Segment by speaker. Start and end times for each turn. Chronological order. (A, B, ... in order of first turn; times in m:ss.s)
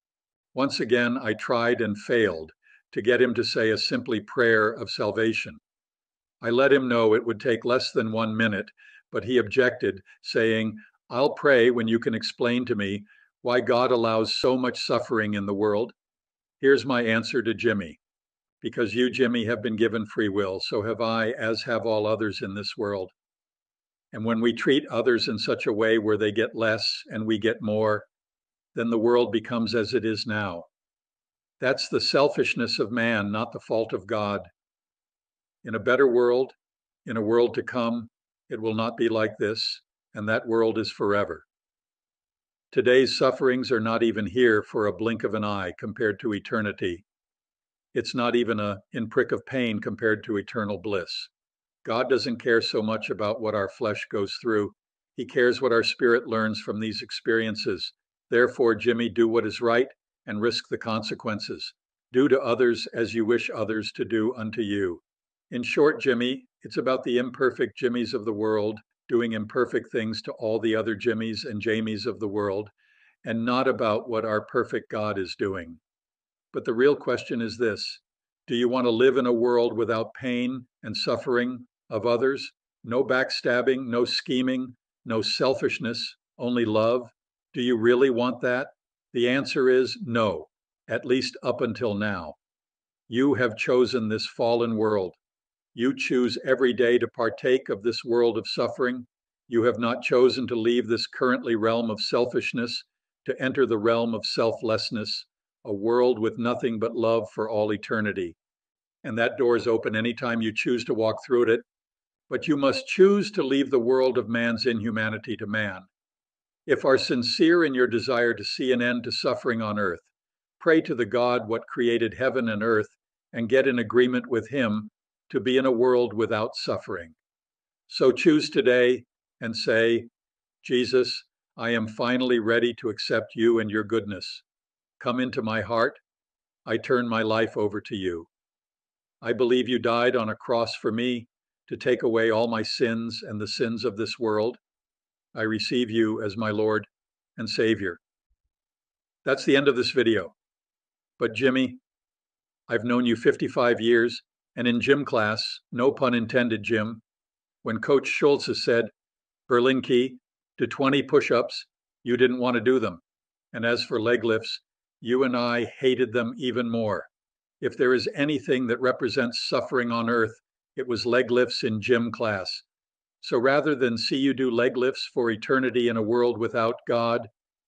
0:00.5-0:05.6 A
0:06.4-0:15.9 A
0:16.6-0:18.0 A
0:18.6-0:23.1 A
0:24.1-0:28.1 A
0:28.7-0:30.7 A
0:31.6-0:34.5 A
0:35.6-0:41.4 A
0:42.7-0:47.0 A
0:47.9-0:51.3 A
0:51.8-1:12.7 A
1:13.2-1:15.8 A
1:16.5-1:32.4 A
1:33.1-1:35.2 A
1:35.8-1:48.4 A
1:49.0-1:51.6 A
1:52.3-1:55.9 A
1:56.7-2:00.1 A
2:00.6-2:07.2 A
2:07.9-2:10.1 A
2:10.6-2:14.4 A
2:15.0-2:16.0 A
2:16.7-2:18.3 A
2:19.2-2:24.6 A
2:25.3-2:28.0 A
2:29.2-2:30.3 A
2:31.2-2:31.8 A
2:32.7-2:37.0 A
2:37.6-2:38.9 A
2:39.5-2:43.0 A
2:43.5-2:47.1 A
2:47.6-2:52.6 A
2:53.2-2:57.3 A